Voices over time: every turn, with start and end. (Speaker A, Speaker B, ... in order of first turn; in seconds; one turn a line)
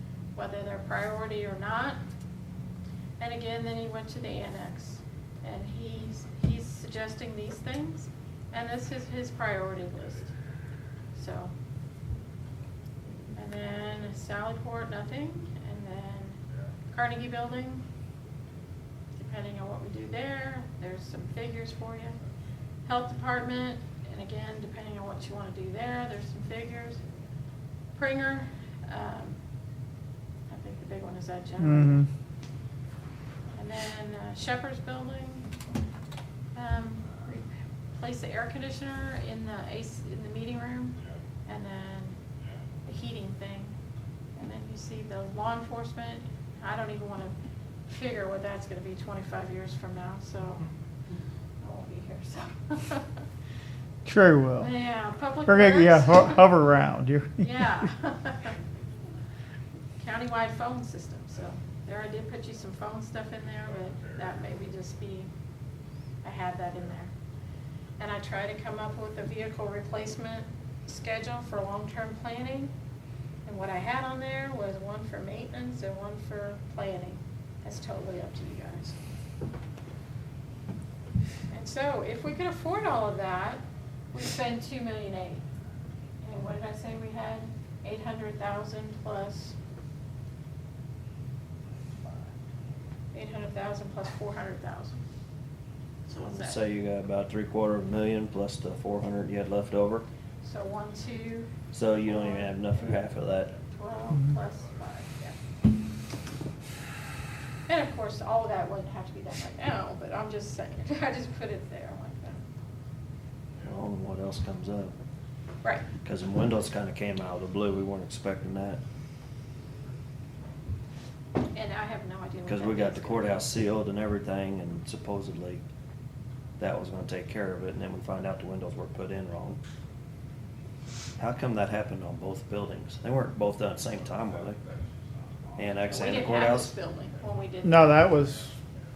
Speaker A: 0.3-2.0
Speaker A: 3.2-10.3
Speaker A: 11.2-11.5
Speaker A: 13.4-16.4
Speaker A: 16.9-17.8
Speaker A: 19.2-22.2
Speaker A: 22.9-27.0
Speaker A: 28.0-29.4
Speaker A: 30.5-32.0
Speaker B: 31.6-32.1
Speaker A: 33.5-35.5
Speaker A: 36.5-42.2
Speaker A: 42.9-43.7
Speaker A: 44.4-47.3
Speaker A: 47.9-50.6
Speaker A: 51.6-53.1
Speaker B: 54.0-54.8
Speaker A: 54.6-56.5
Speaker B: 55.5-57.7
Speaker A: 57.4-58.5
Speaker A: 60.0-65.3
Speaker A: 66.2-67.1
Speaker A: 68.0-72.7
Speaker A: 73.5-79.0
Speaker A: 81.5-83.6
Speaker A: 84.1-85.4
Speaker A: 86.2-89.5
Speaker A: 93.1-95.0
Speaker A: 96.1-96.6
Speaker C: 96.1-100.1
Speaker A: 100.4-101.5
Speaker C: 101.7-103.5
Speaker A: 102.1-102.5
Speaker A: 103.6-105.3
Speaker A: 107.7-112.4
Speaker C: 113.6-114.9
Speaker C: 116.0-118.8
Speaker A: 121.5-123.4
Speaker C: 122.5-125.6
Speaker C: 126.6-129.6
Speaker C: 131.2-134.6
Speaker C: 135.6-136.7
Speaker A: 135.9-138.0
Speaker B: 137.6-138.6